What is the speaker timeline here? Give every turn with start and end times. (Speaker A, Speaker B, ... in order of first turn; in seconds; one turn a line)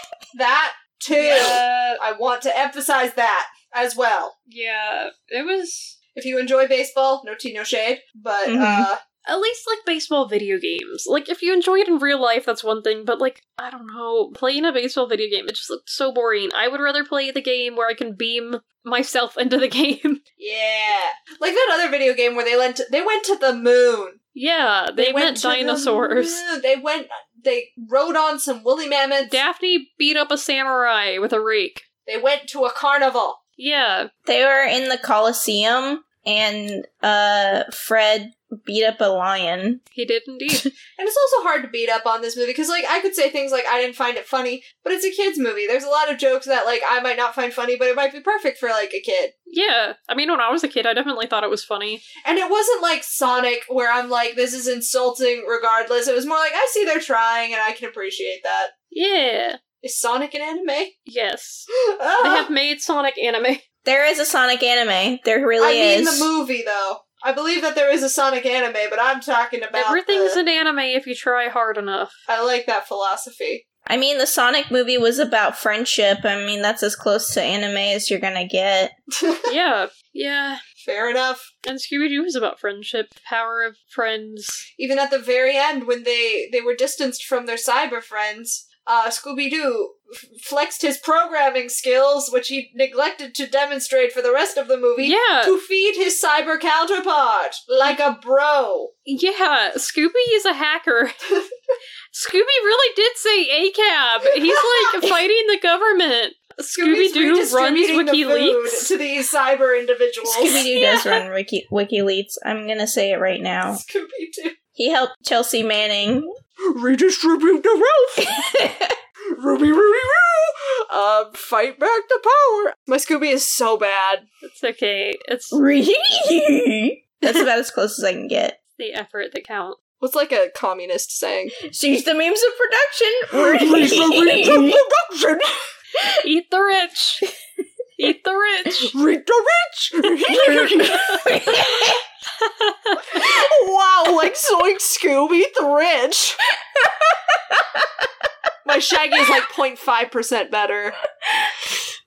Speaker A: 0.3-4.3
Speaker B: 1.1-2.0
Speaker B: 4.5-6.0
Speaker A: 6.1-9.0
Speaker C: 8.4-8.9
Speaker B: 9.2-20.2
Speaker A: 20.4-24.2
Speaker B: 24.4-26.4
Speaker A: 25.0-29.4
Speaker B: 29.3-31.9
Speaker A: 32.1-33.4
Speaker B: 33.6-34.1
Speaker C: 34.3-39.8
Speaker B: 40.0-40.7
Speaker A: 41.0-49.3
Speaker B: 49.5-52.1
Speaker A: 52.2-58.7
Speaker B: 58.9-59.6
Speaker A: 59.8-60.9
Speaker B: 61.1-61.7
Speaker A: 61.9-62.5
Speaker B: 62.2-63.6
Speaker C: 63.9-66.3
Speaker A: 65.6-70.4
Speaker B: 69.7-72.2
Speaker A: 72.3-73.6
Speaker C: 73.9-78.9
Speaker A: 79.2-79.5
Speaker B: 79.5-80.6
Speaker A: 80.8-81.5
Speaker B: 81.6-84.7
Speaker A: 84.8-98.9
Speaker B: 95.0-95.5
Speaker B: 99.1-101.2
Speaker B: 102.1-108.9
Speaker A: 106.8-110.7
Speaker C: 110.2-113.8
Speaker A: 113.7-114.6
Speaker C: 114.8-116.3
Speaker A: 116.7-118.3
Speaker C: 118.3-119.0
Speaker A: 119.3-124.2
Speaker B: 124.4-125.6
Speaker C: 125.5-128.6
Speaker B: 128.8-129.8
Speaker A: 130.0-131.6
Speaker C: 131.6-134.8
Speaker A: 133.3-135.5
Speaker B: 136.2-137.2
Speaker B: 138.0-138.9
Speaker A: 138.9-141.2
Speaker C: 140.3-142.0
Speaker B: 142.4-143.0
Speaker A: 143.1-146.4
Speaker C: 146.8-148.1
Speaker A: 148.7-151.0
Speaker C: 151.3-151.6